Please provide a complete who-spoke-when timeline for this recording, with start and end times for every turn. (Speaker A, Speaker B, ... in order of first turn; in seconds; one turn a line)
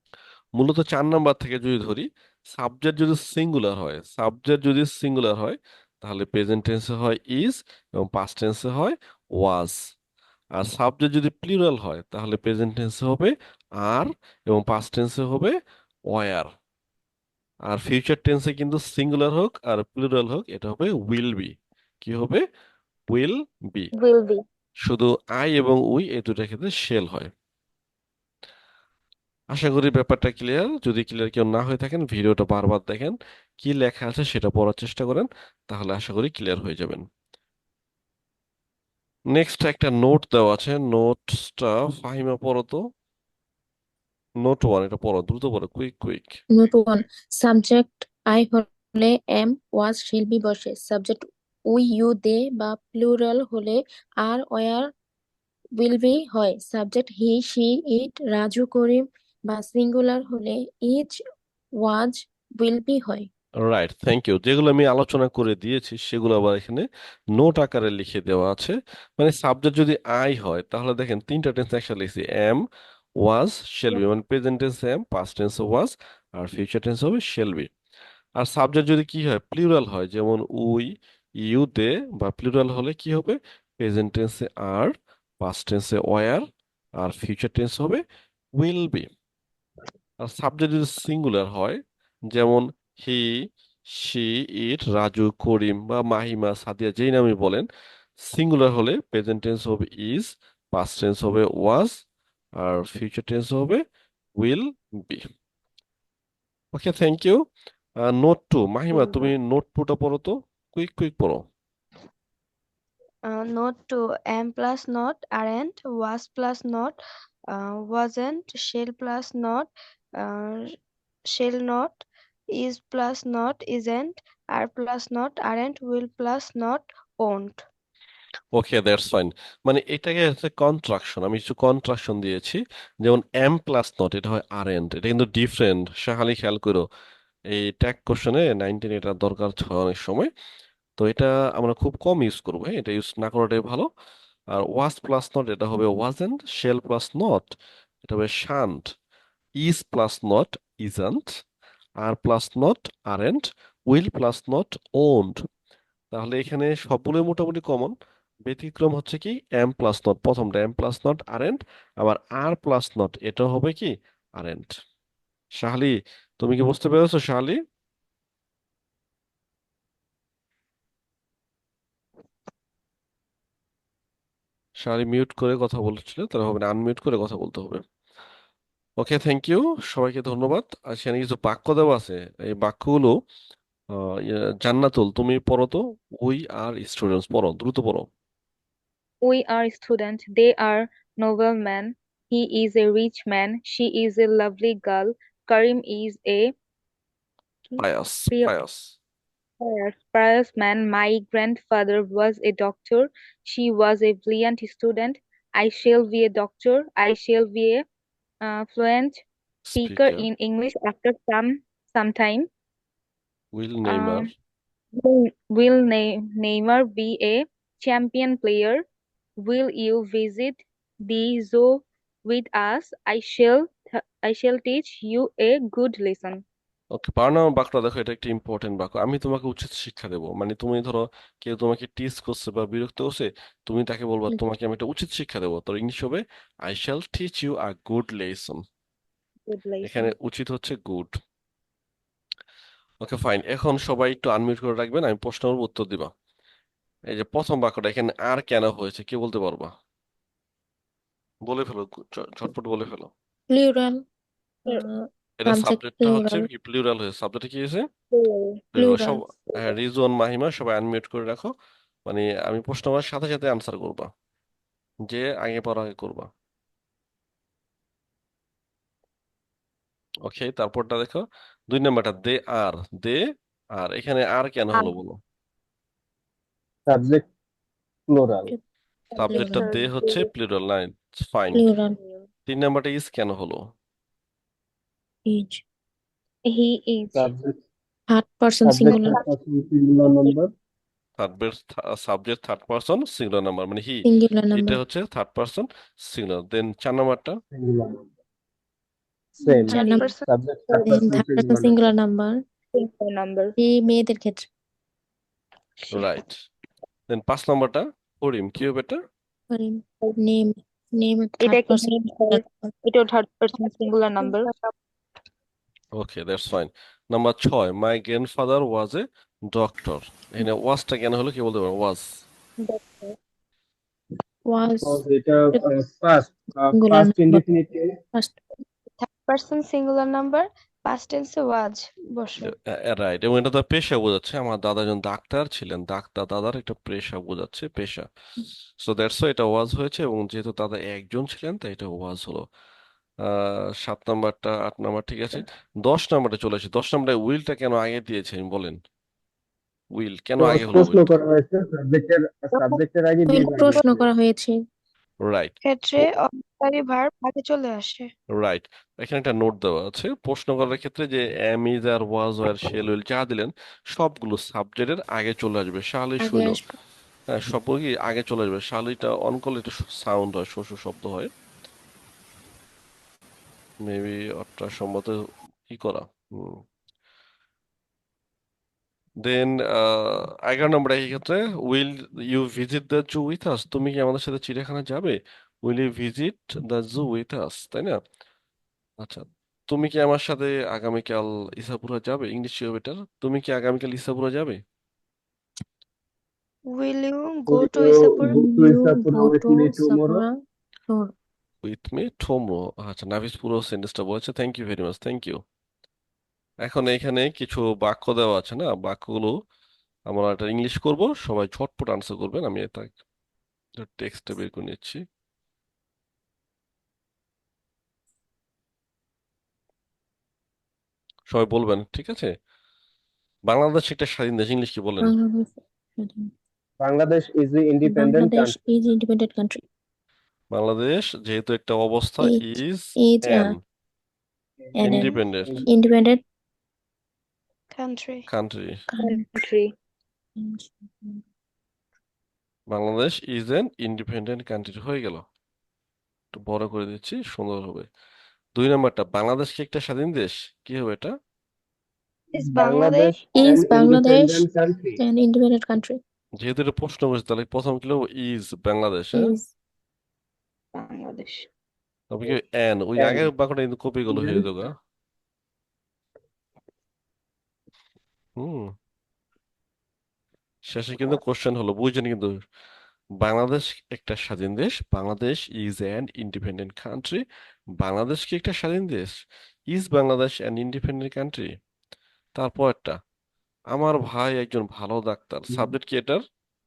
Speaker A: 0.6-9.8
Speaker A: 10.6-15.5
Speaker A: 16.1-16.5
Speaker A: 17.7-22.4
Speaker A: 23.1-23.9
Speaker B: 23.9-24.4
Speaker A: 24.8-27.3
Speaker A: 29.5-37.0
Speaker A: 39.3-42.8
Speaker A: 44.4-46.4
Speaker C: 46.5-54.9
Speaker C: 55.8-61.2
Speaker C: 61.8-63.3
Speaker A: 63.6-72.6
Speaker A: 73.2-77.7
Speaker A: 78.4-86.5
Speaker A: 87.0-88.0
Speaker A: 88.6-89.1
Speaker A: 90.2-91.8
Speaker A: 92.3-97.7
Speaker A: 98.2-102.0
Speaker A: 102.6-103.8
Speaker A: 104.4-105.2
Speaker A: 106.7-107.4
Speaker A: 108.0-111.5
Speaker D: 113.2-117.0
Speaker D: 117.5-120.7
Speaker D: 121.2-127.6
Speaker A: 128.5-136.8
Speaker A: 137.5-140.3
Speaker A: 141.0-143.9
Speaker A: 144.5-147.5
Speaker A: 148.0-148.9
Speaker A: 149.6-151.4
Speaker A: 152.0-155.4
Speaker A: 156.1-157.9
Speaker A: 158.4-164.7
Speaker A: 165.6-167.6
Speaker A: 174.8-177.8
Speaker A: 179.0-183.1
Speaker A: 183.9-188.1
Speaker B: 189.2-196.5
Speaker B: 197.7-198.5
Speaker A: 197.8-198.9
Speaker B: 199.6-207.8
Speaker B: 208.4-209.2
Speaker A: 209.7-210.3
Speaker B: 209.8-212.5
Speaker A: 213.5-214.3
Speaker B: 213.8-214.3
Speaker B: 214.9-218.8
Speaker B: 219.4-226.4
Speaker A: 226.9-238.6
Speaker C: 234.3-234.5
Speaker B: 239.5-240.1
Speaker A: 239.8-241.1
Speaker A: 243.0-246.1
Speaker A: 247.1-249.7
Speaker A: 251.5-253.1
Speaker C: 253.5-254.0
Speaker C: 254.7-256.4
Speaker A: 255.4-257.8
Speaker B: 258.1-258.6
Speaker A: 258.7-261.5
Speaker C: 258.8-259.2
Speaker A: 262.1-264.1
Speaker A: 265.1-266.3
Speaker A: 270.2-273.2
Speaker A: 273.8-275.2
Speaker E: 276.9-277.3
Speaker E: 278.1-278.5
Speaker B: 279.1-280.3
Speaker A: 279.2-281.7
Speaker C: 279.2-279.9
Speaker C: 281.5-282.0
Speaker B: 282.0-282.3
Speaker A: 282.5-283.6
Speaker C: 285.3-285.6
Speaker B: 286.4-287.3
Speaker E: 287.1-287.5
Speaker C: 288.1-289.2
Speaker E: 288.6-290.5
Speaker B: 288.9-289.2
Speaker A: 291.2-297.4
Speaker C: 294.0-294.8
Speaker E: 297.5-298.1
Speaker E: 299.4-301.9
Speaker C: 299.4-300.1
Speaker D: 299.7-300.2
Speaker C: 300.7-302.4
Speaker B: 302.7-303.5
Speaker C: 303.6-304.5
Speaker B: 305.8-306.1
Speaker A: 305.9-306.4
Speaker A: 307.1-309.0
Speaker C: 309.5-312.7
Speaker B: 311.4-314.5
Speaker D: 314.2-314.7
Speaker A: 316.0-322.2
Speaker B: 322.6-323.2
Speaker C: 324.5-325.7
Speaker E: 324.8-327.9
Speaker C: 326.7-327.4
Speaker C: 328.1-328.4
Speaker D: 329.0-332.5
Speaker A: 332.4-338.1
Speaker A: 338.8-342.4
Speaker A: 343.2-348.8
Speaker A: 349.9-351.1
Speaker E: 350.4-354.1
Speaker C: 353.3-354.5
Speaker A: 355.2-355.5
Speaker D: 355.6-358.1
Speaker A: 358.3-366.6
Speaker C: 366.2-366.8
Speaker A: 367.3-371.3
Speaker A: 373.8-376.6
Speaker A: 379.2-388.0
Speaker A: 389.0-394.6
Speaker D: 396.7-398.4
Speaker E: 397.5-400.2
Speaker C: 398.3-400.3
Speaker A: 401.6-405.4
Speaker A: 406.6-409.3
Speaker A: 410.1-413.0
Speaker A: 413.8-415.0
Speaker A: 421.3-422.3
Speaker A: 423.5-425.1
Speaker C: 425.0-426.3
Speaker E: 426.8-428.6
Speaker C: 427.8-429.6
Speaker A: 430.5-433.6
Speaker C: 432.2-433.6
Speaker E: 434.6-435.7
Speaker C: 434.8-436.2
Speaker A: 434.8-435.6
Speaker D: 437.7-438.3
Speaker A: 438.3-438.8
Speaker C: 438.9-439.4
Speaker B: 439.0-439.7
Speaker C: 440.4-441.2
Speaker A: 442.7-445.2
Speaker A: 446.3-447.9
Speaker A: 448.6-451.1
Speaker D: 452.3-453.1
Speaker E: 452.4-455.0
Speaker C: 453.4-454.4
Speaker C: 455.0-456.0
Speaker A: 456.4-459.3
Speaker C: 459.1-459.5
Speaker B: 460.7-461.5
Speaker A: 462.1-464.7
Speaker E: 463.0-463.3
Speaker E: 464.1-464.5
Speaker A: 468.4-468.7
Speaker A: 470.7-472.3
Speaker A: 473.2-477.2
Speaker A: 477.8-479.1
Speaker A: 479.7-481.5
Speaker A: 482.4-483.0
Speaker A: 483.7-486.2